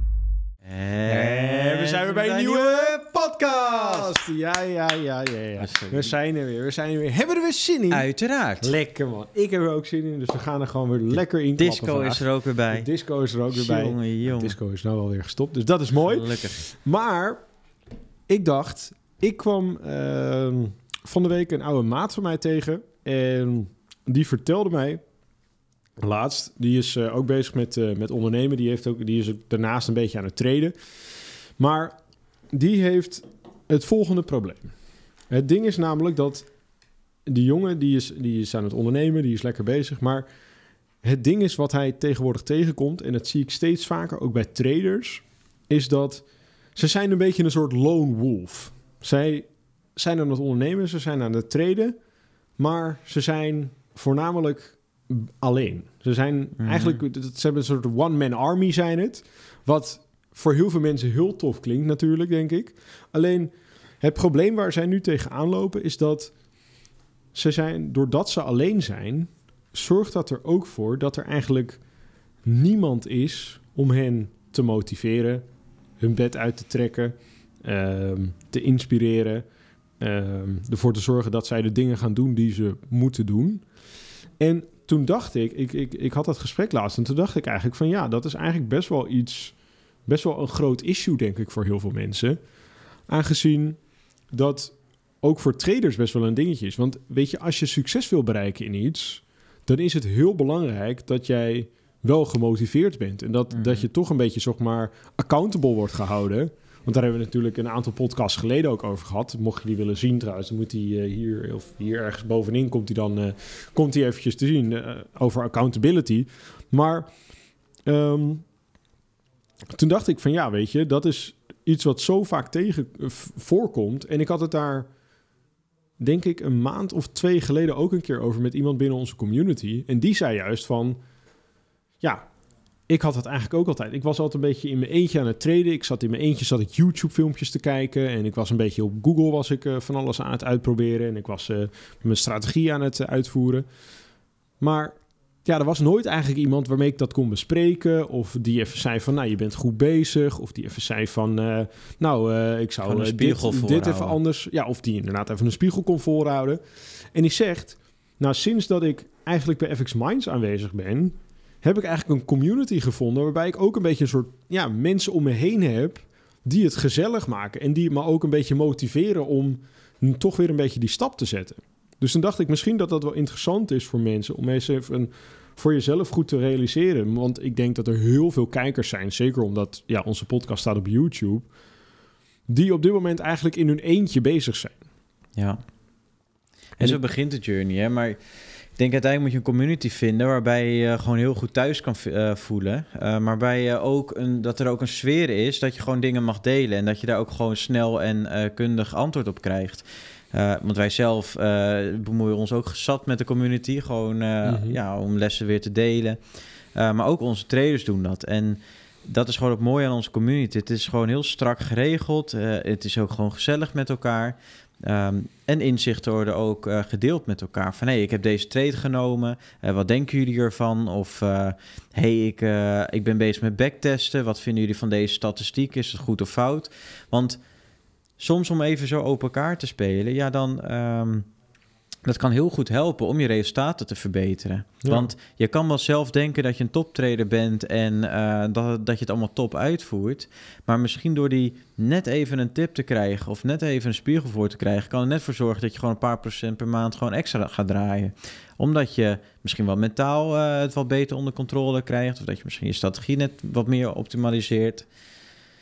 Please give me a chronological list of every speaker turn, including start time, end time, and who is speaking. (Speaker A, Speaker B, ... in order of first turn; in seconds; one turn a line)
Speaker A: 0.6-4.1
Speaker B: 1.1-8.1
Speaker A: 5.6-6.2
Speaker A: 7.9-8.7
Speaker B: 8.6-17.4
Speaker A: 11.6-12.9
Speaker A: 13.5-14.6
Speaker A: 16.1-16.6
Speaker B: 18.3-25.0
Speaker B: 26.0-30.7
Speaker B: 31.6-31.9
Speaker B: 32.5-34.7
Speaker B: 35.3-36.5
Speaker B: 37.3-40.2
Speaker B: 41.0-46.2
Speaker B: 46.8-52.0
Speaker B: 52.6-63.5
Speaker A: 56.6-57.0
Speaker B: 64.0-66.3
Speaker B: 67.3-71.8
Speaker B: 72.5-75.4
Speaker B: 76.0-79.5
Speaker B: 80.0-83.7
Speaker B: 84.4-92.4
Speaker B: 93.1-93.8
Speaker B: 94.3-117.1
Speaker A: 103.5-103.9
Speaker B: 117.9-118.5
Speaker B: 119.8-124.9
Speaker B: 126.0-131.0
Speaker B: 132.0-132.3
Speaker B: 132.9-143.7
Speaker B: 144.6-156.6
Speaker A: 152.8-154.2
Speaker B: 157.1-181.5
Speaker B: 182.5-184.8
Speaker A: 186.8-188.2
Speaker A: 188.8-206.2
Speaker B: 204.4-204.8
Speaker A: 206.8-227.4
Speaker A: 228.2-231.2
Speaker A: 232.0-254.9
Speaker B: 234.8-235.1